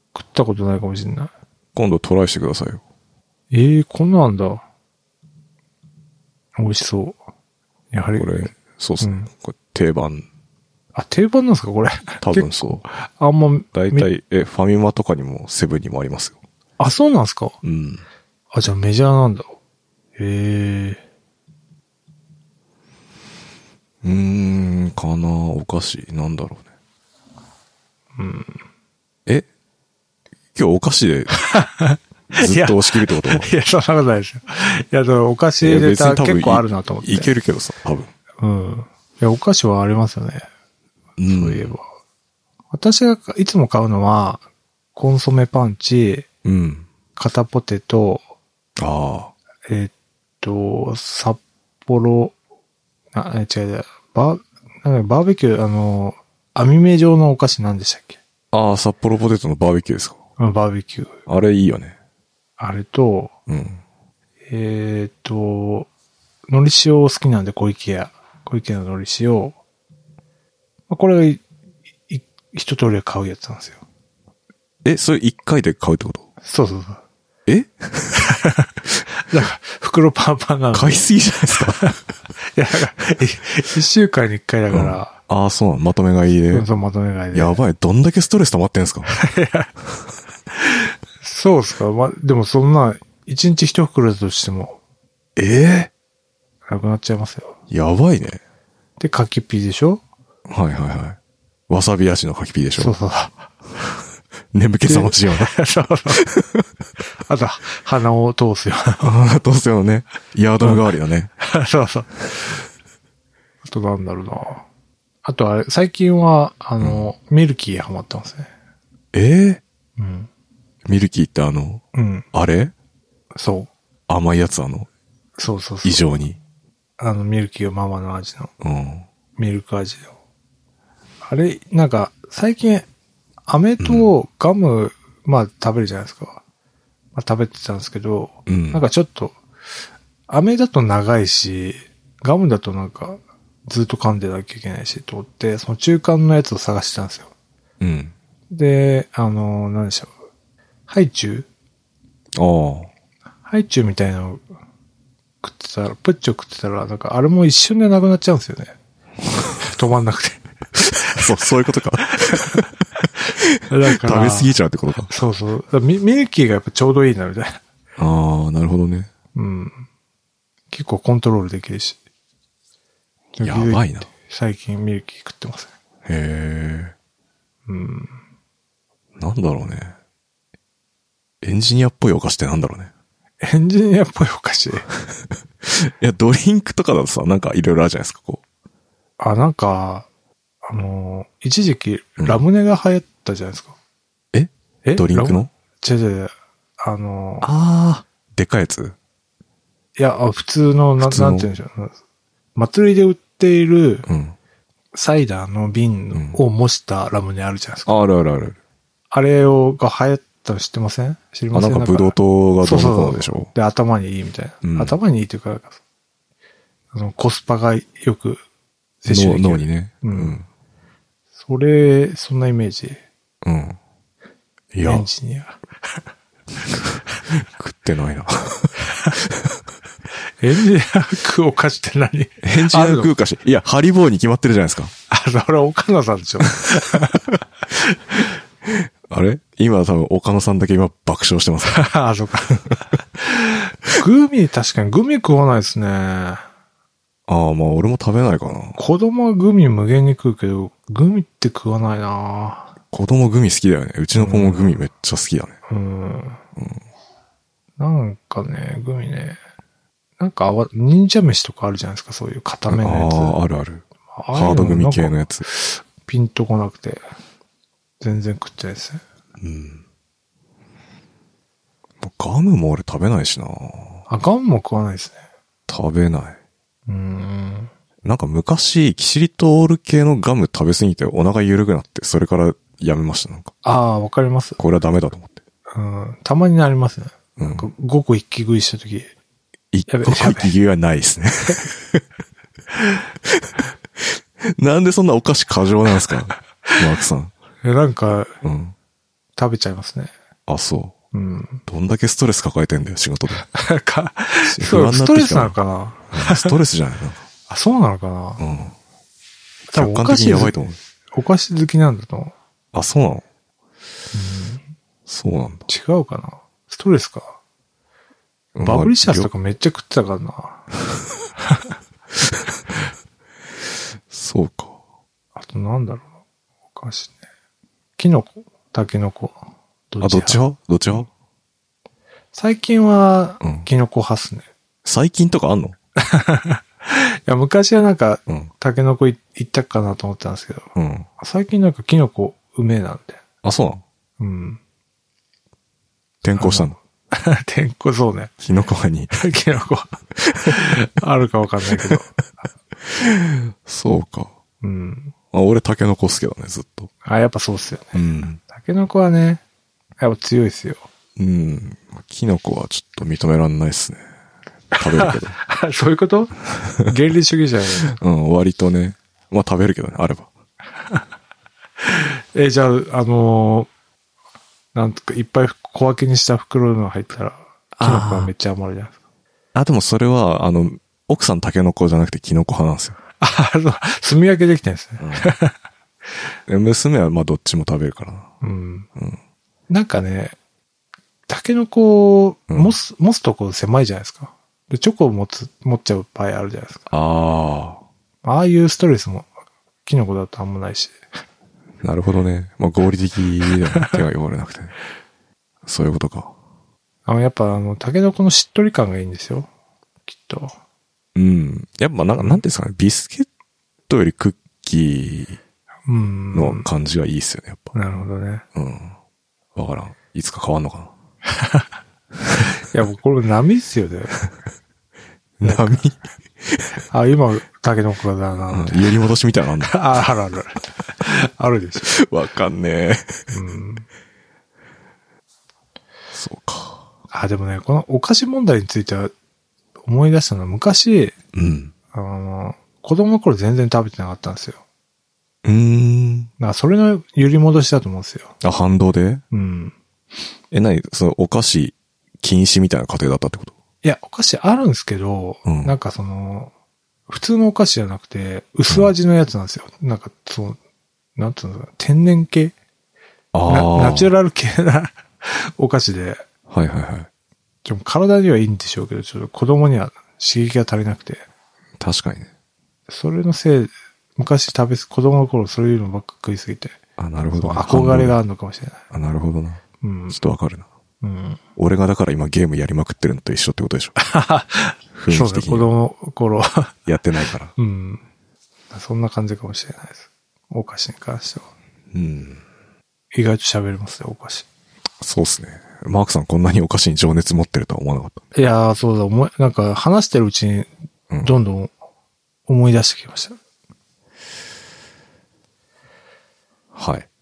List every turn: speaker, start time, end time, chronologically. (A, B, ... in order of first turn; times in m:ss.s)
0:00.1-0:01.3 A
0:01.7-0:02.8 B
0:03.5-0:04.6 A
0:06.6-0:07.2 A
0:07.9-0:09.3 A
0:08.2-0:10.2 B
0:10.9-0:14.1 A
0:12.2-0:12.8 B
0:13.7-0:16.4 B
0:16.8-0:17.6 A
0:17.6-0:18.0 B
0:18.5-0:19.6 A
0:20.2-0:21.0 A
0:24.0-0:26.6 B
0:28.2-0:28.6 A
0:30.5-0:31.3 B
0:31.3-0:37.3 A
0:32.4-0:33.5 B
0:35.6-0:38.1 B
0:38.4-0:40.4 A
0:41.2-0:41.7 B
0:41.2-0:41.8 A
0:42.7-0:46.3 A
0:46.4-0:46.9 B
0:47.2-0:48.2 A
0:48.8-0:49.3 B
0:49.7-0:52.4 A
0:53.1-0:58.2 A
0:58.5-1:00.2 B
1:00.4-1:01.2 A
1:01.3-1:02.0 B
1:02.6-1:03.3 A
1:03.5-1:03.8 B
1:04.5-1:05.9 A
1:06.5-1:09.6 A
1:10.9-1:11.4 A
1:12.1-1:13.8 A
1:14.8-1:16.2 B
1:16.4-1:17.0 A
1:17.4-1:18.2 B
1:18.1-1:21.9 A
1:20.7-1:21.9 B
1:22.5-1:25.1 A
1:24.7-1:26.7 B
1:26.5-1:27.6 A
1:27.3-1:29.2 B
1:29.1-1:29.7 A
1:30.6-1:34.8 A
1:35.4-1:35.9 B
1:36.7-1:37.6 A
1:37.7-1:38.4 B
1:39.0-1:40.0 A
1:40.5-1:41.2 B
1:41.7-1:42.9 B
1:42.8-1:43.5 A
1:44.5-1:45.5 B
1:44.8-1:46.3 A
1:46.2-1:46.7 B
1:47.2-1:49.2 A
1:49.0-1:51.3 B
1:51.4-1:52.6 A
1:53.6-1:54.6 A
1:55.2-1:58.5 A
1:56.8-1:57.1 B
1:59.1-1:59.6 B
2:00.0-2:00.3 A
2:00.8-2:02.7 B
2:01.9-2:02.3 A
2:03.3-2:03.7 A
2:04.1-2:04.9 B
2:05.4-2:06.0 A
2:05.8-2:06.4 B
2:07.0-2:08.5 A
2:08.6-2:09.1 B
2:09.4-2:10.1 A
2:11.2-2:12.9 A
2:13.5-2:16.4 A
2:13.8-2:14.1 B
2:17.1-2:19.4 A
2:18.5-2:18.8 B
2:20.3-2:27.3 A
2:27.8-2:28.1 B
2:28.5-2:30.1 A
2:30.9-2:31.5 A
2:32.4-2:32.9 B
2:33.4-2:34.4 A
2:35.4-2:38.7 A
2:39.6-2:41.2 A
2:41.1-2:42.7 B
2:42.1-2:44.6 A
2:43.4-2:45.1 B
2:45.1-2:47.6 A
2:48.0-2:49.1 B
2:49.3-2:49.8 A
2:50.7-2:52.0 A
2:53.3-2:55.7 A
2:53.4-2:54.1 B
2:56.0-2:56.9 B
2:57.7-2:58.2 A
2:59.2-3:00.0 B
3:01.4-3:02.9 B
3:03.4-3:04.9 A
3:05.6-3:08.4 B
3:09.2-3:10.1 A
3:10.6-3:13.8 A
3:12.2-3:12.4 B
3:14.3-3:15.5 B
3:14.8-3:17.5 A
3:17.4-3:19.0 B
3:20.0-3:21.9 A
3:21.0-3:21.5 B
3:22.6-3:24.0 A
3:24.0-3:24.4 B
3:24.9-3:27.9 A
3:26.1-3:26.4 B
3:27.8-3:28.6 B
3:29.1-3:35.8 A
3:31.5-3:33.5 B
3:34.6-3:35.0 B
3:36.9-3:38.4 A
3:39.0-3:40.4 A
3:39.1-3:40.4 B
3:41.3-3:43.0 A
3:43.4-3:43.8 B
3:44.7-3:45.0 B
3:44.8-3:45.6 A
3:47.3-3:48.8 B
3:49.3-3:49.6 B
3:50.4-3:53.1 A
3:52.4-3:54.9 B
3:55.1-3:58.3 A
3:58.6-4:01.8 B
4:01.6-4:02.8 A
4:03.9-4:06.4 A
4:07.3-4:08.8 B
4:08.7-4:12.7 A
4:12.9-4:15.6 B
4:14.1-4:14.8 A
4:15.7-4:16.4 A
4:17.8-4:19.4 A
4:20.2-4:23.4 A
4:22.7-4:25.4 B
4:24.1-4:27.0 A
4:28.0-4:29.0 A
4:29.4-4:29.8 B
4:32.0-4:34.0 B
4:34.1-4:35.2 A
4:35.7-4:36.4 B
4:36.9-4:37.7 A
4:38.0-4:43.5 B
4:43.6-4:44.6 A
4:44.6-4:45.4 B
4:45.7-4:49.1 A
4:47.4-4:47.7 B
4:49.7-4:52.0 B
4:49.9-4:50.5 A
4:53.2-4:57.3 B
4:57.6-4:58.4 A
4:58.4-4:58.7 B
4:59.4-5:00.1 A
5:00.5-5:00.9 B
5:01.1-5:01.6 A
5:01.7-5:03.4 B
5:03.3-5:06.6 A
5:04.5-5:05.6 B
5:06.1-5:07.2 B
5:07.5-5:08.4 A
5:08.4-5:08.7 B
5:09.7-5:10.6 A
5:09.7-5:10.8 B
5:11.1-5:12.3 A
5:12.7-5:13.2 B
5:14.1-5:14.6 A
5:15.1-5:15.7 B
5:15.7-5:17.4 A
5:18.5-5:19.3 B
5:18.6-5:20.7 A
5:24.1-5:24.8 B
5:25.4-5:26.1 A
5:26.7-5:27.2 A
5:28.0-5:29.4 A
5:29.9-5:30.4 A
5:30.0-5:31.1 B
5:32.3-5:34.4 A
5:33.4-5:33.7 B
5:34.8-5:35.8 B
5:36.0-5:43.2 A
5:40.8-5:41.1 B
5:43.4-5:43.8 B
5:44.2-5:44.6 A
5:46.2-5:46.8 B
5:46.4-5:48.3 A
5:48.4-5:49.1 B
5:49.1-5:52.1 A
5:50.3-5:50.7 B
5:51.7-5:52.0 B
5:52.8-5:54.3 B
5:54.6-5:55.1 A
5:55.3-5:56.9 B
5:57.0-5:59.4 A
5:57.9-5:58.4 B
6:00.0-6:00.9 A
6:01.2-6:04.0 B
6:04.7-6:07.9 A
6:04.8-6:05.4 B
6:07.9-6:10.3 B
6:11.8-6:13.7 A
6:14.7-6:19.0 A
6:17.8-6:18.3 B
6:19.5-6:23.0 B
6:23.2-6:25.5 A
6:25.0-6:25.3 B
6:26.5-6:28.3 B
6:28.4-6:28.9 A
6:29.7-6:30.4 A
6:31.3-6:36.9 A
6:32.5-6:32.7 B
6:36.9-6:37.8 B
6:38.2-6:39.3 A
6:39.8-6:41.0 A
6:41.8-6:44.7 B
6:45.6-6:46.3 B
6:47.0-6:49.5 A
6:50.0-6:50.6 A
6:51.1-6:53.3 B
6:53.9-6:55.4 B
6:55.8-6:56.7 A
6:56.3-6:57.7 B
6:57.7-6:58.4 A
6:58.5-6:58.9 B
6:59.5-7:00.9 B
7:01.3-7:01.7 A
7:02.3-7:04.2 A
7:05.4-7:06.6 B
7:05.4-7:05.8 A
7:06.9-7:08.9 A
7:08.5-7:09.8 B
7:09.6-7:11.9 A
7:11.8-7:13.3 B
7:13.3-7:13.9 A
7:16.1-7:16.8 B
7:17.1-7:19.1 A
7:19.8-7:21.2 A
7:21.3-7:21.7 B
7:21.9-7:24.6 A
7:25.4-7:26.3 B
7:26.4-7:28.3 A
7:28.4-7:29.2 B
7:29.3-7:29.7 A
7:30.5-7:33.5 B
7:33.8-7:36.5 A
7:35.4-7:35.7 B
7:37.1-7:40.6 A
7:41.2-7:42.6 A
7:43.3-7:44.1 B
7:43.5-7:46.2 A
7:46.5-7:47.1 B
7:47.6-7:51.2 A
7:51.8-7:52.3 B
7:52.9-7:56.8 A
7:57.0-7:58.2 B
7:57.3-7:58.8 A
7:58.9-8:00.7 B
7:59.8-8:00.2 A
8:01.0-8:01.4 A
8:01.6-8:04.0 B
8:04.0-8:06.7 A
8:04.9-8:05.7 B
8:06.8-8:07.5 B
8:07.6-8:08.0 A
8:08.7-8:11.5 A
8:11.9-8:12.4 B
8:13.1-8:14.5 A
8:15.0-8:18.2 B
8:18.3-8:20.7 A
8:21.2-8:21.7 A
8:22.5-8:23.4 A
8:26.7-8:27.1 B